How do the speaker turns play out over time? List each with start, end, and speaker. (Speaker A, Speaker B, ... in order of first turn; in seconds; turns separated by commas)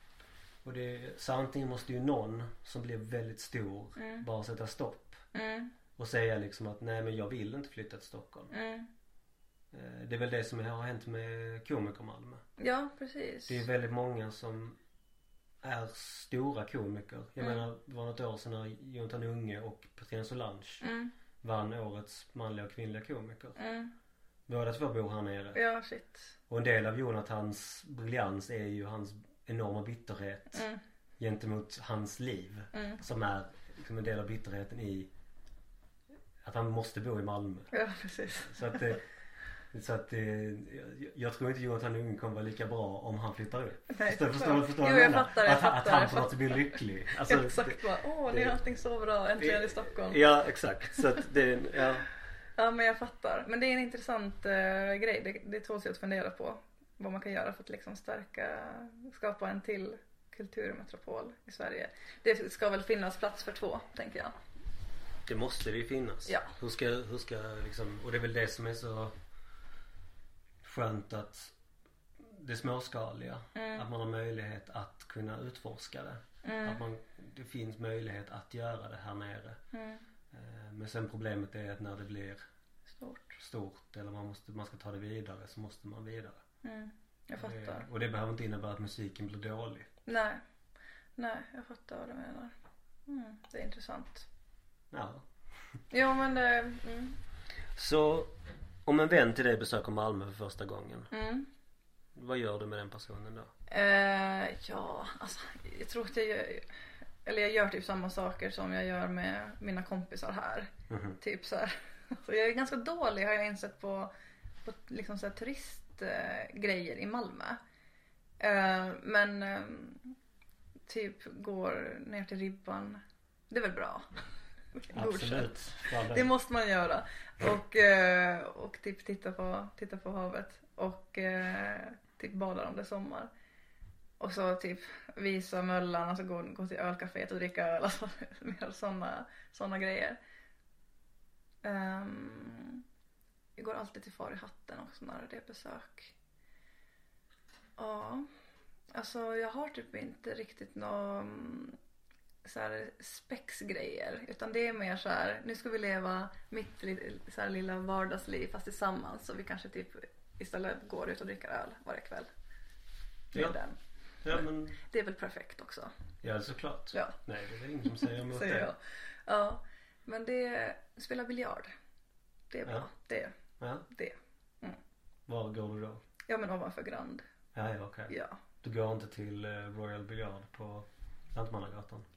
Speaker A: 0.6-5.2, Speaker B: 4.0-4.2, Speaker B: 5.3-5.7, Speaker A: 6.0-8.5, Speaker B: 8.5-8.9, Speaker A: 9.7-12.4, Speaker B: 12.6-13.6, Speaker A: 13.5-14.8, Speaker A: 15.6-20.9, Speaker B: 20.8-21.1, Speaker A: 21.4-23.6, Speaker B: 23.6-23.9, Speaker A: 24.5-25.6, Speaker B: 25.5-26.3, Speaker A: 26.5-30.6, Speaker B: 30.5-30.8, Speaker A: 31.2-35.1, Speaker B: 32.7-33.0, Speaker A: 36.4-37.7, Speaker B: 37.7-39.0, Speaker A: 38.4-39.0, Speaker A: 39.7-48.6, Speaker B: 43.9-50.2, Speaker A: 49.4-52.1, Speaker B: 52.6-64.3, Speaker A: 65.3-69.1, Speaker B: 66.3-66.5, Speaker A: 70.6-71.5, Speaker A: 72.2-79.6, Speaker B: 73.5-73.9, Speaker B: 76.4-76.8, Speaker B: 79.7-80.0, Speaker A: 80.3-82.4, Speaker B: 83.0-83.4, Speaker A: 83.4-86.4, Speaker B: 86.6-87.9, Speaker A: 87.4-89.9, Speaker B: 90.0-90.4, Speaker B: 91.2-92.5, Speaker B: 93.1-94.3, Speaker A: 94.9-95.3, Speaker B: 95.9-97.2, Speaker A: 97.8-98.3, Speaker A: 98.8-101.1, Speaker B: 101.1-101.5, Speaker A: 102.1-103.5, Speaker B: 103.7-106.7, Speaker B: 107.2-114.1, Speaker A: 110.9-111.2, Speaker B: 114.6-117.6, Speaker B: 118.4-120.1, Speaker B: 120.9-124.1, Speaker B: 124.7-133.3, Speaker A: 124.9-126.3, Speaker B: 134.2-140.2, Speaker B: 141.6-142.8, Speaker B: 143.6-146.1, Speaker B: 147.8-148.3, Speaker B: 148.9-151.8, Speaker B: 152.4-162.3, Speaker B: 163.3-163.8, Speaker A: 164.2-164.8, Speaker B: 164.8-165.9, Speaker A: 166.2-168.7, Speaker B: 166.9-167.2, Speaker B: 167.8-171.7, Speaker B: 172.5-174.8, Speaker A: 173.6-173.8, Speaker A: 175.3-176.0, Speaker B: 176.3-177.2, Speaker A: 177.5-182.1, Speaker B: 178.1-178.4